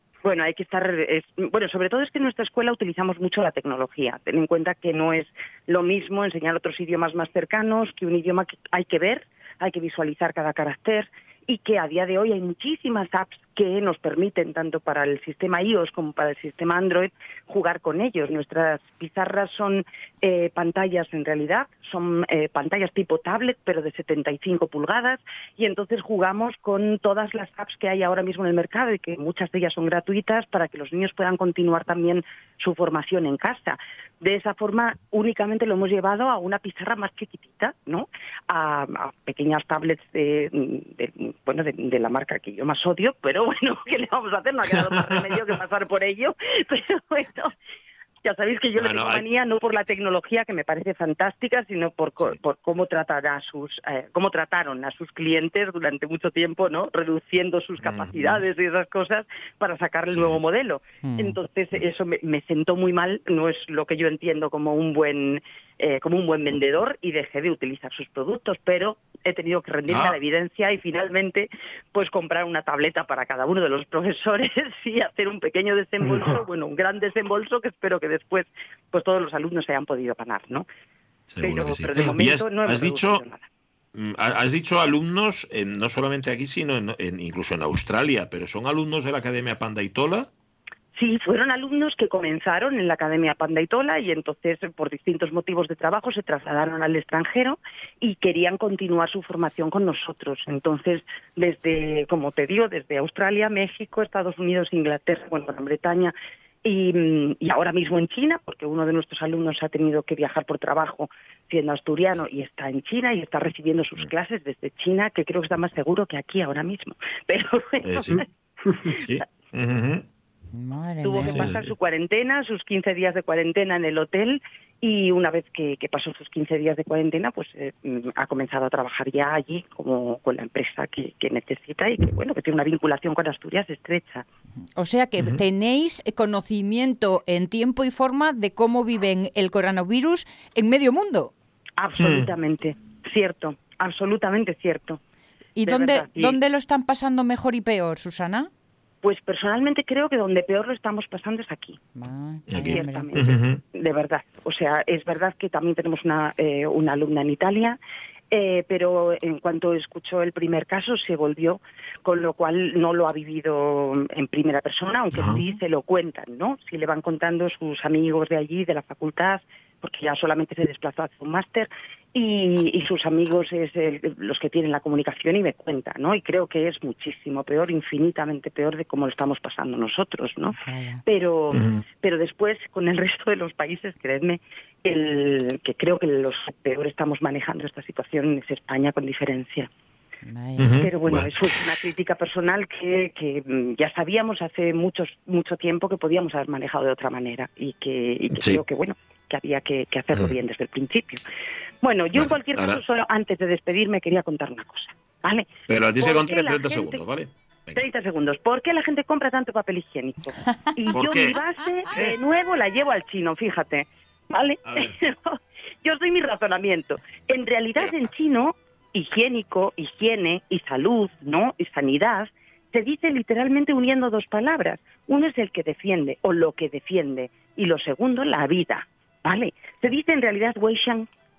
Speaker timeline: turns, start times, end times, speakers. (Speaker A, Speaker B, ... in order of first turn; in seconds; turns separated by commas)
Speaker A: 0.2-47.5, Speaker B: 44.7-45.4, Speaker A: 48.2-80.6, Speaker B: 48.8-49.2, Speaker B: 57.8-58.4, Speaker B: 60.1-60.4, Speaker C: 61.0-61.4, Speaker B: 69.9-70.2, Speaker B: 81.3-83.2, Speaker A: 81.4-83.5, Speaker B: 83.9-90.3, Speaker A: 90.9-119.1, Speaker B: 117.8-118.2, Speaker B: 118.9-120.0, Speaker C: 120.5-121.6, Speaker A: 121.0-134.2, Speaker B: 121.2-121.7, Speaker C: 134.8-141.3, Speaker B: 135.2-135.4, Speaker A: 141.8-145.0, Speaker B: 142.0-142.3, Speaker C: 145.6-148.5, Speaker A: 145.6-146.4, Speaker A: 149.0-151.8, Speaker C: 151.9-153.1, Speaker B: 152.5-153.6, Speaker A: 152.6-157.8, Speaker A: 158.3-189.7, Speaker B: 165.1-165.4, Speaker C: 165.3-165.6, Speaker C: 180.6-181.0, Speaker B: 181.5-181.8, Speaker C: 190.3-190.8, Speaker B: 190.6-191.6, Speaker A: 190.7-201.2, Speaker B: 198.3-198.6, Speaker A: 201.8-207.0, Speaker B: 202.1-202.8, Speaker B: 205.7-207.8, Speaker A: 207.7-231.1, Speaker B: 210.9-211.4, Speaker B: 214.6-215.0